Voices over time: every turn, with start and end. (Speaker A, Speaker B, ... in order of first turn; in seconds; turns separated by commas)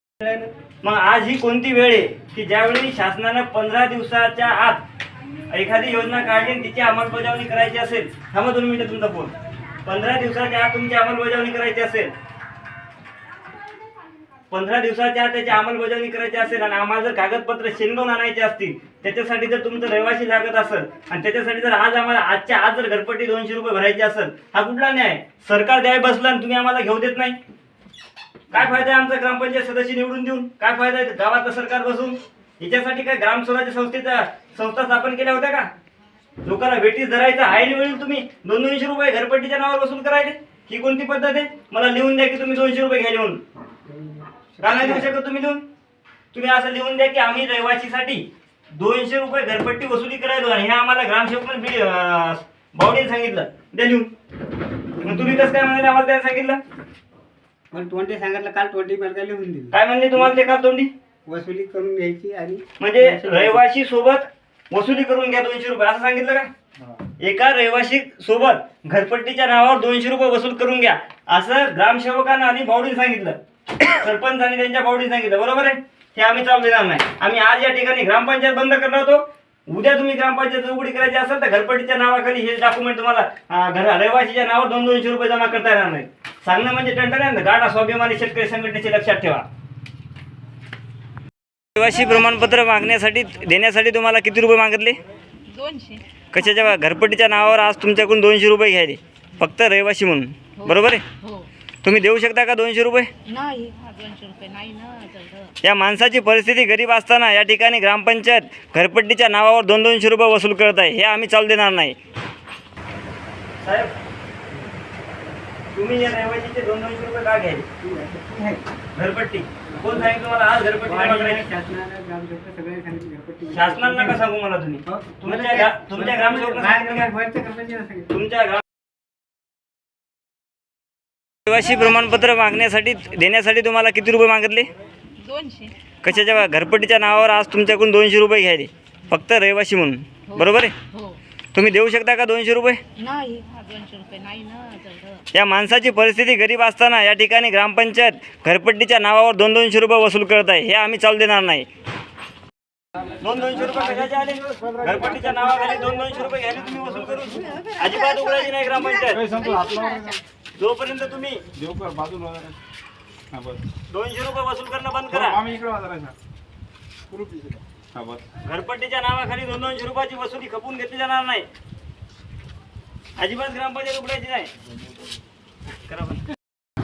Speaker A: 0.8-4.8, Speaker A: 5.5-9.3, Speaker A: 9.8-12.1, Speaker A: 14.5-27.4, Speaker A: 28.5-35.7, Speaker A: 36.4-43.4, Speaker B: 43.8-45.1, Speaker A: 44.6-45.6, Speaker A: 46.3-54.1, Speaker A: 55.0-56.6, Speaker B: 57.7-60.3, Speaker A: 59.7-60.9, Speaker B: 61.2-63.6, Speaker A: 62.8-66.5, Speaker A: 67.2-89.5, Speaker A: 91.8-95.0, Speaker C: 95.5-96.4, Speaker A: 96.3-101.0, Speaker C: 100.6-101.5, Speaker A: 101.8-103.1, Speaker C: 103.3-105.5, Speaker A: 105.6-112.0, Speaker A: 113.6-113.9, Speaker A: 115.7-117.7, Speaker B: 117.8-118.6, Speaker A: 118.9-121.5, Speaker B: 119.8-120.1, Speaker B: 120.8-124.2, Speaker A: 123.5-127.1, Speaker B: 124.8-128.1, Speaker A: 128.1-128.6, Speaker A: 131.5-134.7, Speaker C: 135.2-135.7, Speaker A: 136.0-140.7, Speaker C: 140.3-141.2, Speaker A: 141.5-142.8, Speaker C: 143.0-145.2, Speaker A: 145.3-151.7, Speaker A: 153.2-159.4, Speaker D: 159.1-160.2, Speaker A: 160.6-161.4, Speaker D: 161.5-162.6, Speaker D: 163.3-163.6, Speaker A: 163.9-165.4, Speaker D: 165.1-166.1, Speaker D: 167.1-168.2, Speaker A: 168.4-171.5, Speaker A: 173.2-174.5, Speaker A: 175.8-176.2